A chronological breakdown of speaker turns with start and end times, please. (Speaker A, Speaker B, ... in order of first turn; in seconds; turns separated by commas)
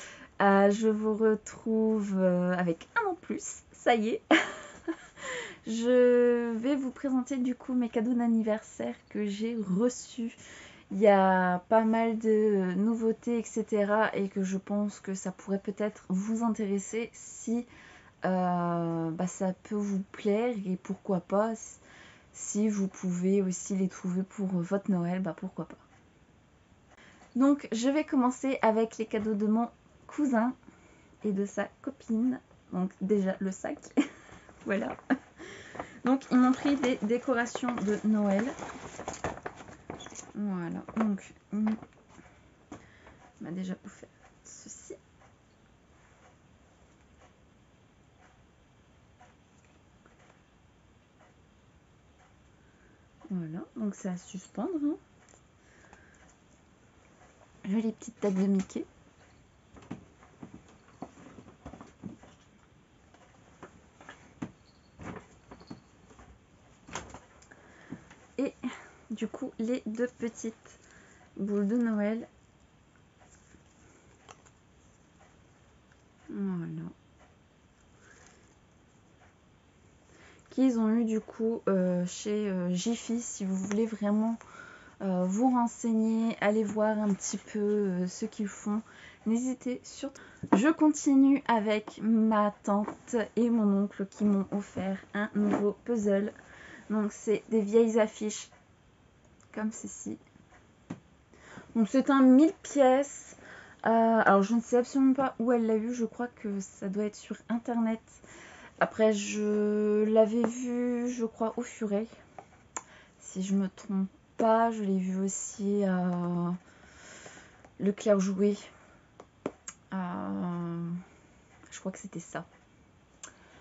Speaker A: 0.4-10.4, Speaker A: 10.9-17.7, Speaker A: 18.2-21.8, Speaker A: 22.3-25.8, Speaker A: 27.4-30.6, Speaker A: 31.2-34.0, Speaker A: 34.6-38.6, Speaker A: 40.3-41.8, Speaker A: 43.4-45.0, Speaker A: 53.3-55.0, Speaker A: 57.6-58.9, Speaker A: 69.1-70.8, Speaker A: 71.4-72.3, Speaker A: 76.3-76.9, Speaker A: 80.5-84.4, Speaker A: 85.0-96.3, Speaker A: 96.9-98.5, Speaker A: 99.5-100.2, Speaker A: 101.7-108.2, Speaker A: 108.8-112.1, Speaker A: 113.2-116.6, Speaker A: 117.8-118.7, Speaker A: 119.9-121.0, Speaker A: 121.7-122.5